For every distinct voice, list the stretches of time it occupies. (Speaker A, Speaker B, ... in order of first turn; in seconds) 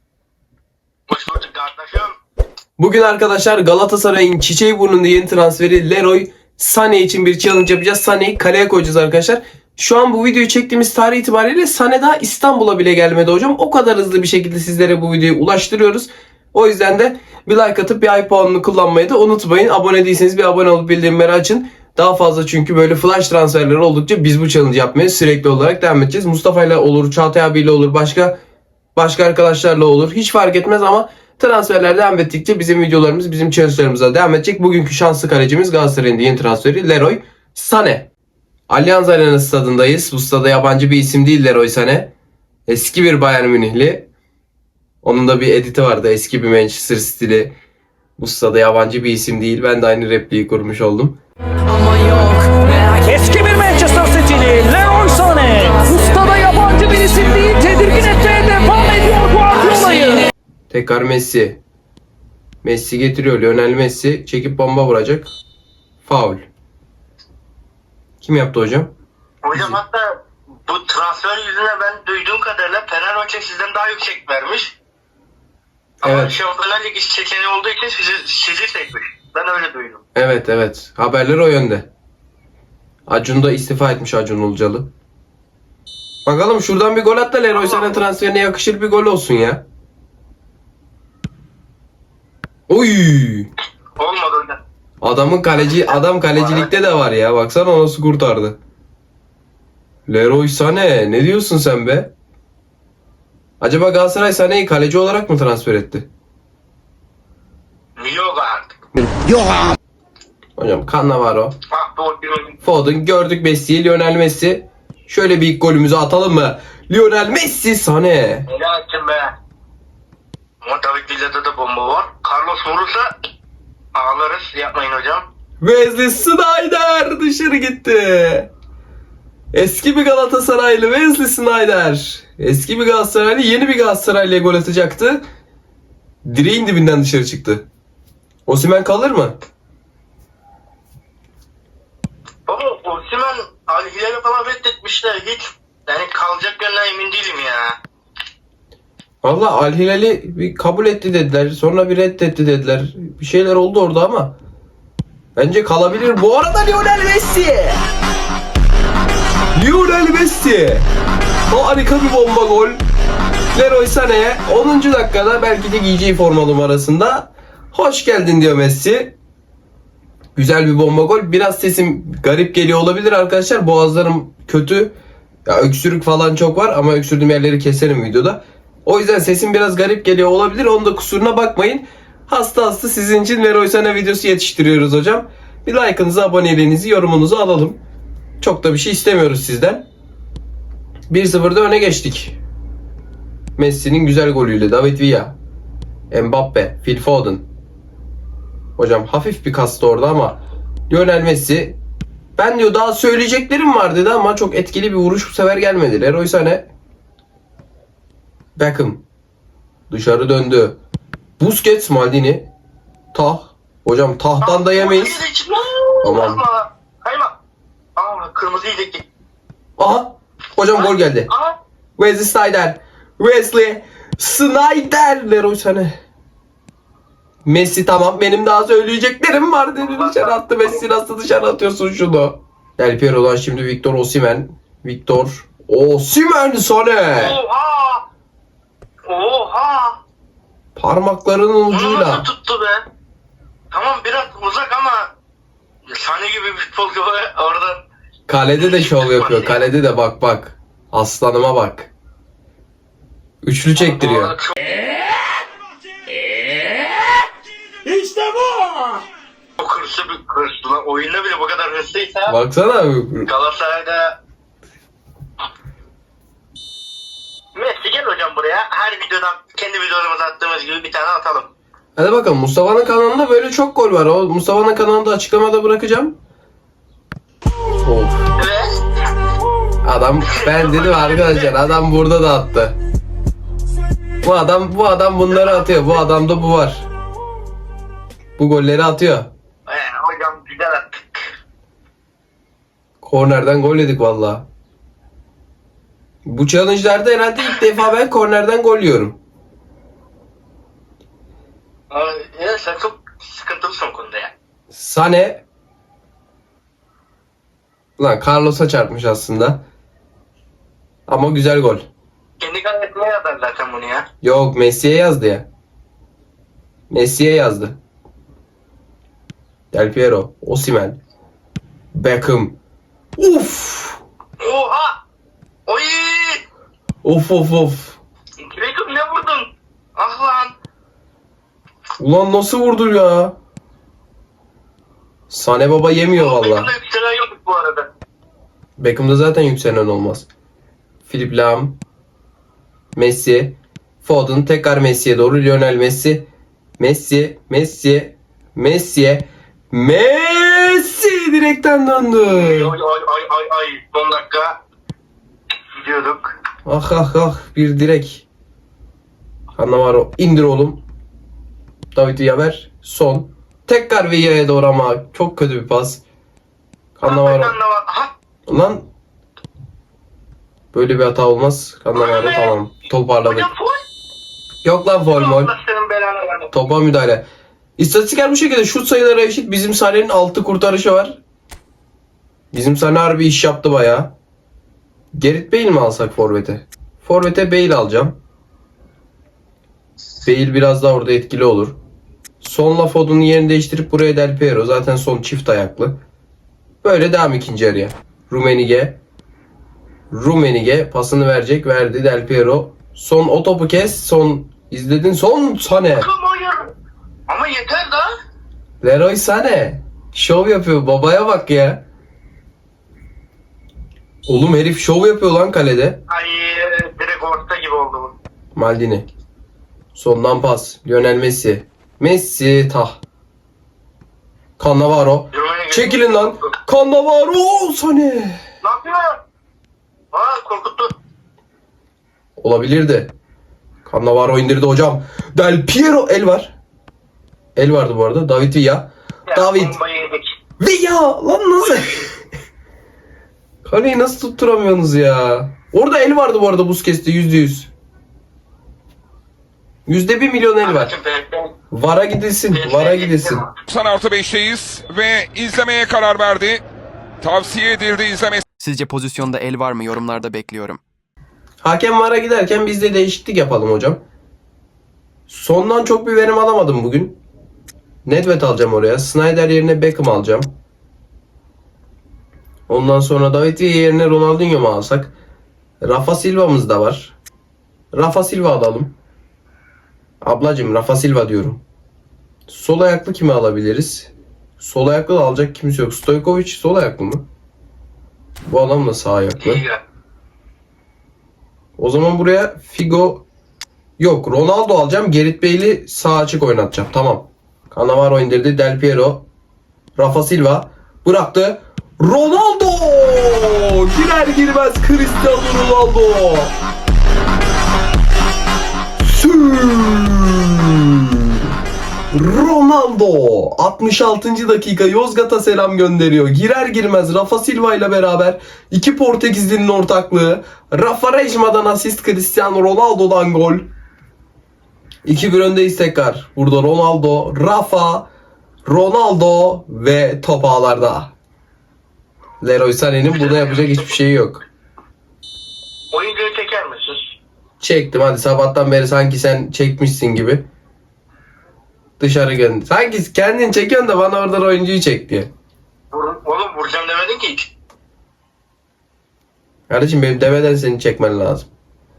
Speaker A: 1.1-2.1, 69.4-70.1, 70.7-74.8, 76.0-80.0, 87.5-88.0, 94.0-94.6, 95.5-97.0, 108.0-108.7, 111.7-112.5, 118.5-119.3, 120.6-123.1, 123.9-125.2, 142.5-147.8, 214.4-217.3, 217.9-219.0, 220.7-221.6, 229.8-230.8, 237.1-238.0, 239.1-240.0, 241.7-242.8, 243.7-245.1, 245.9-247.8, 248.6-249.7, 253.8-254.5, 259.6-262.3, 263.3-264.2, 267.5-271.5, 278.4-278.9, 280.3-281.6, 285.3-286.1, 289.6-291.3, 301.9-304.3, 312.4-314.1, 324.4-325.0, 325.7-326.4, 328.4-330.5, 336.1-337.9, 352.2-354.6, 355.7-356.3, 367.0-368.1, 371.9-372.6, 373.2-373.8, 375.1-376.5, 405.9-406.7, 407.3-408.1, 416.1-418.1, 425.3-426.5, 428.6-429.2, 430.1-430.9, 439.3-440.3, 450.6-451.5, 452.5-453.5, 489.4-489.8, 533.1-533.9, 535.9-537.0, 545.9-547.5
Speaker B: 2.8-28.4, 28.9-38.1, 38.7-42.1, 42.7-44.1, 45.0-47.5, 48.2-51.2, 60.7-61.6, 62.6-65.3, 66.0-66.4, 68.2-68.9, 69.5-69.8, 76.0-76.3, 80.1-81.9, 83.1-84.9, 86.2-89.6, 92.7-93.5, 95.0-98.5, 100.1-102.1, 103.6-106.1, 109.0-109.4, 110.6-111.5, 112.6-118.5, 125.6-128.5, 129.5-135.2, 136.2-137.7, 138.4-139.3, 149.2-154.3, 155.3-157.8, 159.5-160.9, 161.5-162.8, 163.5-169.1, 170.3-174.9, 175.4-187.8, 188.4-189.8, 191.1-192.4, 193.6-195.3, 196.1-197.4, 198.8-200.4, 200.9-201.8, 202.4-206.7, 208.6-209.0, 209.9-210.8, 211.4-212.5, 213.1-215.2, 216.0-216.4, 219.8-221.3, 222.0-226.0, 227.4-237.4, 240.8-242.2, 248.3-251.9, 253.4-254.3, 262.3-263.3, 271.9-276.1, 277.8-278.2, 279.8-282.7, 284.2-286.8, 288.4-289.3, 293.0-294.4, 296.2-299.2, 304.7-305.4, 308.0-309.6, 311.1-311.8, 314.2-315.4, 316.9-317.7, 319.7-321.0, 321.9-322.5, 323.2-324.0, 327.0-328.0, 332.0-333.3, 335.3-336.7, 338.8-340.3, 341.1-341.8, 342.9-346.2, 346.8-352.7, 356.6-358.2, 359.6-360.8, 361.9-366.0, 367.0-367.6, 368.5-368.8, 370.7-373.5, 374.6-375.5, 376.5-377.2, 377.8-381.2, 382.5-384.1, 385.1-388.1, 390.2-391.8, 392.4-395.9, 396.8-399.0, 400.1-406.1, 408.8-411.8, 414.2-416.0, 418.5-419.1, 419.9-423.0, 424.6-428.4, 432.4-433.1, 433.9-436.5, 437.6-439.8, 440.6-442.1, 443.6-447.7, 449.9-450.9, 451.7-453.4, 461.6-464.0, 465.3-467.2, 468.0-470.5, 472.7-475.1, 475.8-477.1, 477.9-478.9, 480.2-481.6, 482.5-487.2, 488.4-489.6, 491.8-493.2, 494.0-499.2, 499.9-506.5, 509.0-511.5, 512.1-523.7, 525.0-528.1, 528.6-531.1, 532.4-534.4, 537.6-540.4, 542.0-545.3, 549.7-551.5
Speaker C: 52.1-60.3, 257.9-258.6
Speaker D: 453.7-456.6, 457.2-458.4
Speaker E: 458.5-460.8